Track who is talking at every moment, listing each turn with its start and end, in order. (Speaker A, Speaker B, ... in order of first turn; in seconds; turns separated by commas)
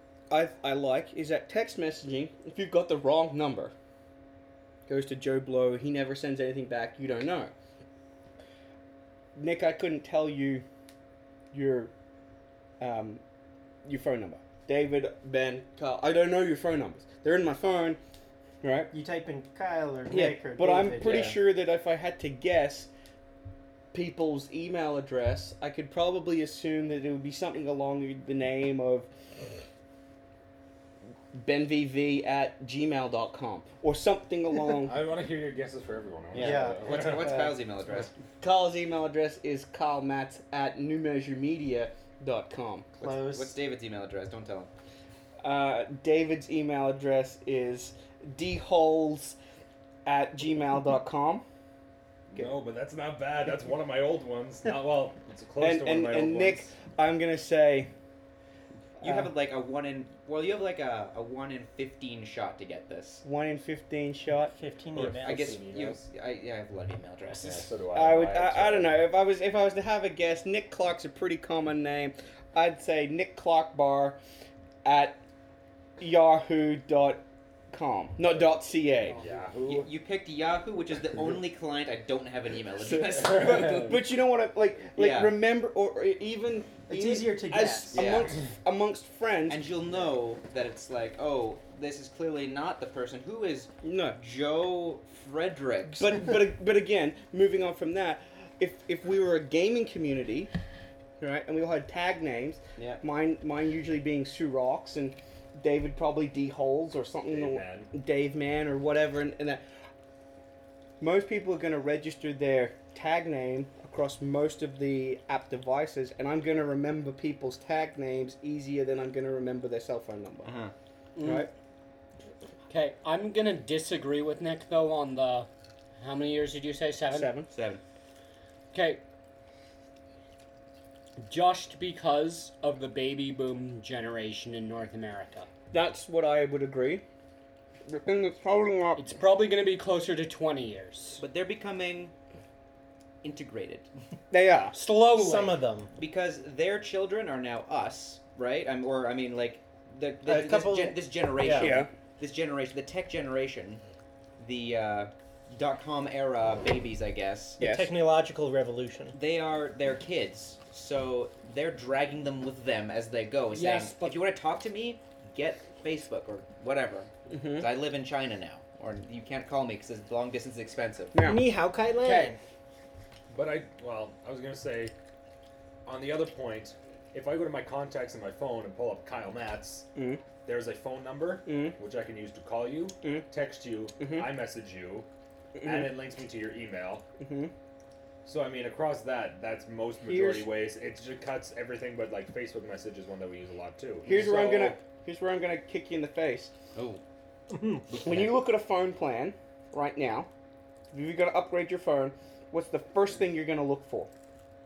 Speaker A: 0.3-3.7, Speaker A: 4.9-7.5, Speaker A: 9.3-10.7, Speaker A: 11.5-11.9, Speaker A: 12.8-13.2, Speaker A: 13.8-18.0, Speaker A: 18.6-18.9, Speaker B: 18.9-21.4, Speaker A: 20.1-22.9, Speaker A: 23.9-29.1, Speaker A: 31.3-35.0, Speaker C: 34.8-37.3, Speaker D: 36.3-38.1, Speaker B: 36.4-36.9, Speaker A: 38.4-42.9, Speaker B: 43.0-43.5, Speaker D: 43.0-44.7, Speaker A: 45.4-49.4, Speaker A: 50.0-51.5, Speaker C: 52.3-56.7, Speaker A: 55.6-57.9, Speaker D: 59.0-63.2, Speaker A: 63.2-64.5, Speaker B: 64.5-65.6, Speaker C: 65.0-66.0, Speaker D: 65.1-67.7, Speaker C: 67.4-69.0, Speaker A: 67.9-74.2, Speaker A: 74.8-75.2, Speaker A: 76.0-79.2, Speaker C: 79.2-79.8, Speaker D: 79.7-83.8, Speaker A: 82.8-89.7, Speaker D: 85.0-85.4, Speaker B: 86.9-88.0, Speaker D: 87.9-88.4, Speaker D: 89.5-96.4, Speaker A: 93.8-94.2, Speaker A: 95.9-100.5, Speaker A: 101.2-109.7, Speaker D: 102.8-103.0, Speaker C: 107.3-107.9, Speaker A: 111.0-120.5, Speaker D: 120.4-120.7, Speaker E: 121.2-121.5, Speaker A: 121.2-121.5, Speaker E: 122.7-127.4, Speaker A: 127.1-127.5, Speaker D: 127.5-127.8, Speaker E: 128.7-129.0, Speaker E: 131.2-135.5, Speaker A: 135.7-137.0, Speaker A: 137.9-139.2, Speaker E: 139.0-141.2, Speaker D: 141.2-142.1, Speaker D: 143.2-143.9, Speaker A: 144.3-144.8, Speaker E: 144.7-145.6, Speaker B: 144.8-145.9, Speaker D: 146.0-153.8, Speaker B: 150.2-151.7, Speaker A: 151.5-151.9, Speaker D: 154.4-157.6, Speaker A: 157.6-157.9, Speaker B: 157.6-159.2, Speaker D: 159.1-171.2, Speaker E: 163.5-164.2, Speaker A: 167.3-167.7, Speaker A: 171.1-171.4, Speaker B: 171.2-172.4, Speaker C: 173.3-174.9, Speaker C: 175.9-179.9, Speaker A: 179.9-180.2, Speaker C: 180.4-185.1, Speaker A: 181.4-181.8, Speaker A: 184.0-184.3, Speaker A: 185.6-185.9, Speaker C: 185.6-187.1, Speaker A: 187.2-187.5, Speaker C: 188.2-194.8, Speaker A: 190.0-190.5, Speaker A: 194.1-196.5, Speaker D: 196.8-197.0, Speaker B: 197.5-197.9, Speaker D: 197.9-198.4, Speaker A: 198.0-200.3, Speaker A: 200.9-204.1